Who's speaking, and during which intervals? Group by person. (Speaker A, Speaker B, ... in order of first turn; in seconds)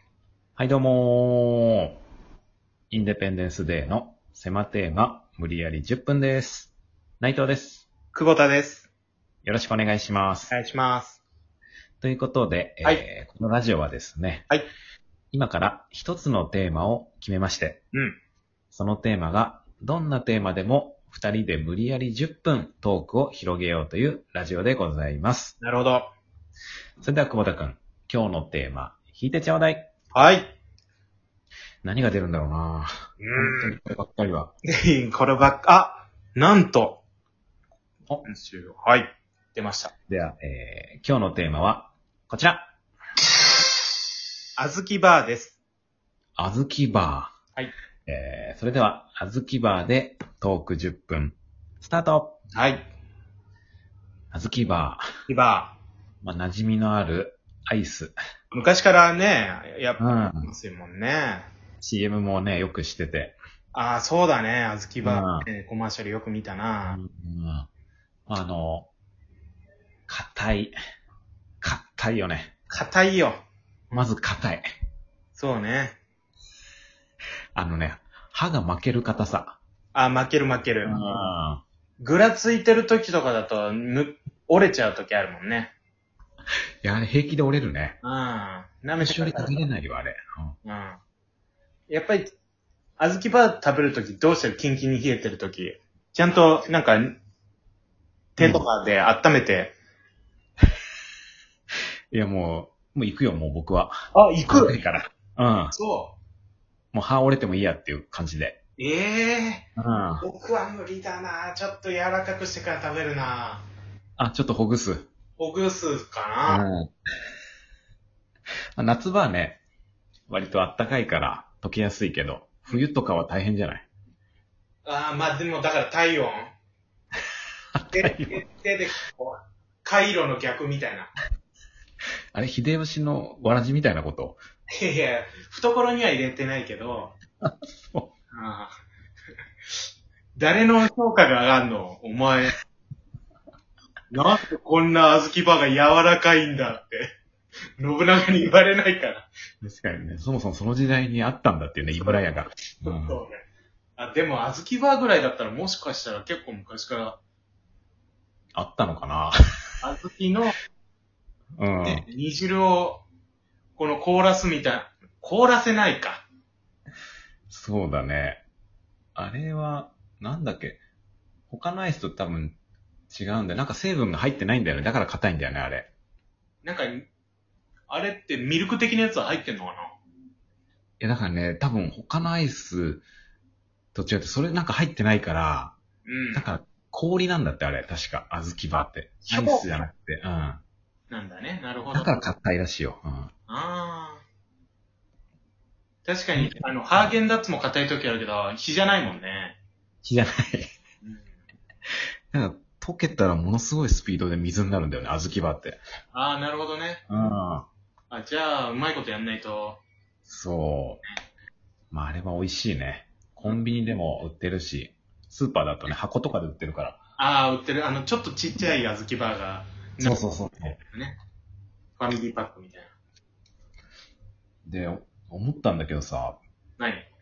Speaker A: 0.6-2.0, 2.9-7.9, 9.4-10.5, 12.0-14.5, 15.3-17.8, 18.7-25.6, 27.0-29.9, 31.8-34.5, 40.1-42.7, 46.4-47.4, 48.1-52.4, 54.3-55.0, 56.2-58.1, 60.0-60.5, 61.8-63.4, 65.0-65.5, 66.9-67.7, 68.3-68.9, 70.1-70.8, 71.6-72.5, 73.9-74.7, 77.5-79.6, 80.8-81.6, 86.8-88.0, 89.0-90.5, 98.4-98.7, 102.1-103.9, 104.5-105.7, 106.9-108.6, 109.8-110.2, 114.2-115.1, 116.5-116.9, 118.8-119.6, 120.3-123.9, 127.8-128.4, 132.3-134.4, 137.4-138.1, 149.6-153.2, 158.5-159.4, 161.6-162.1, 167.5-168.4, 169.2-170.8, 171.5-172.6, 173.1-175.9, 181.0-183.1, 183.9-185.8, 186.3-190.6, 191.9-193.3, 196.4-197.1, 200.0-200.7, 202.3-205.8, 207.1-207.7, 210.3-211.0, 211.9-217.0, 220.0-220.8, 224.7-226.4
Speaker B: 8.1-8.9, 10.5-11.2, 25.6-26.1, 30.1-30.5, 33.2-33.8, 34.7-37.0, 38.2-39.9, 44.6-45.6, 52.5-52.9, 55.3-55.8, 58.5-61.5, 63.7-67.0, 72.7-74.1, 75.3-76.0, 79.9-81.3, 82.0-85.7, 88.0-89.7, 90.6-91.0, 91.9-92.3, 93.0-97.2, 98.4-99.7, 104.1-104.8, 105.7-106.2, 108.8-109.7, 110.2-113.6, 115.4-116.6, 124.8-126.5, 127.9-131.1, 134.8-137.2, 138.3-138.7, 140.4-142.6, 144.1-147.1, 147.8-149.3, 151.9-152.2, 152.8-153.4, 154.0-157.2, 159.8-160.6, 161.8-163.1, 163.8-166.2, 176.6-177.1, 177.9-179.9, 186.1-186.4, 189.2-189.7, 191.1-192.2, 193.5-194.2, 196.1-199.6, 201.0-201.3, 206.1-207.0, 208.1-209.8, 217.2-221.2, 222.0-222.9, 226.8-227.1